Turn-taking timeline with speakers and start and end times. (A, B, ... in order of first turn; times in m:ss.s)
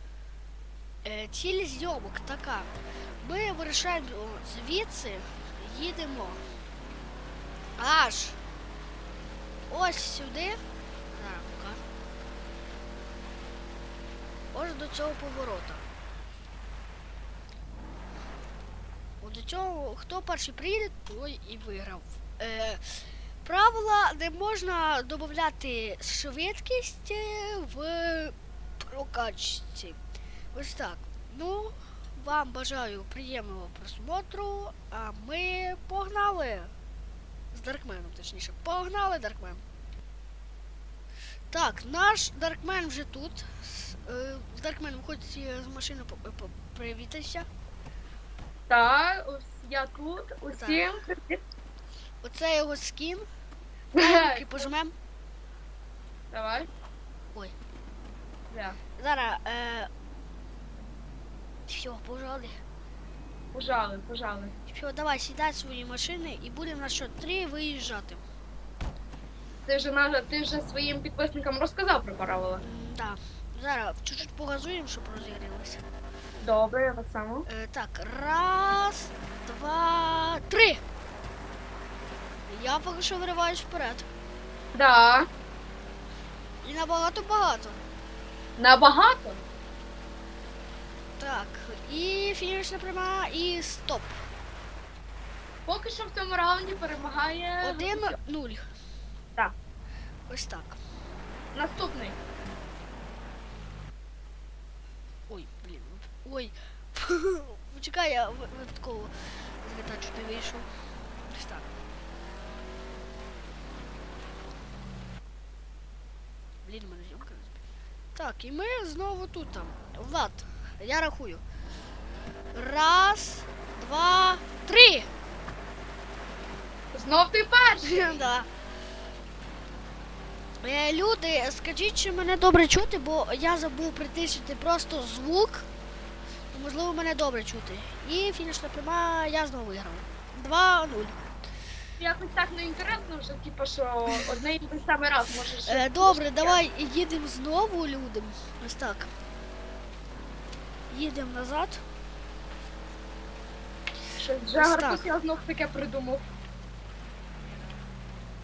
0:01.0-0:06.4 A
0:07.8-0:08.4 A
0:09.7-0:11.8 A
0:14.5-0:15.8 A
0:19.2-0:30.0 A
0:30.5-0:36.7 A
0:37.5-0:39.6 A
0:41.5-0:47.5 A
0:48.7-0:51.4 B
0:50.5-0:50.8 A
0:52.2-0:53.3 A
0:53.9-0:54.7 B
0:54.0-0:54.9 A
0:56.3-0:56.7 B
0:58.5-0:58.8 B
0:59.0-0:59.9 A
1:01.7-1:02.6 A
1:03.5-1:04.6 B
1:04.7-1:08.2 A
1:09.7-1:12.6 B
1:12.6-1:15.8 A
1:16.4-1:17.5 B
1:17.5-1:20.8 A
1:22.5-1:24.1 A
1:24.7-1:25.3 B
1:26.6-1:27.8 A
1:28.6-1:29.4 B
1:31.2-1:34.2 A
1:35.7-1:38.2 B
1:37.6-1:38.6 A
1:40.3-1:40.8 A
1:41.5-1:42.2 B
1:45.3-1:50.7 A
1:51.3-1:51.7 A
1:56.6-1:57.6 A
1:58.2-2:01.4 A
2:02.5-2:05.1 A
2:06.9-2:08.3 B
2:07.8-2:08.5 A
2:10.6-2:15.7 A
2:16.5-2:21.2 A
2:22.0-2:26.6 B
2:25.7-2:29.1 A
2:30.9-2:31.8 A
2:34.2-2:36.2 B
2:34.6-2:35.1 A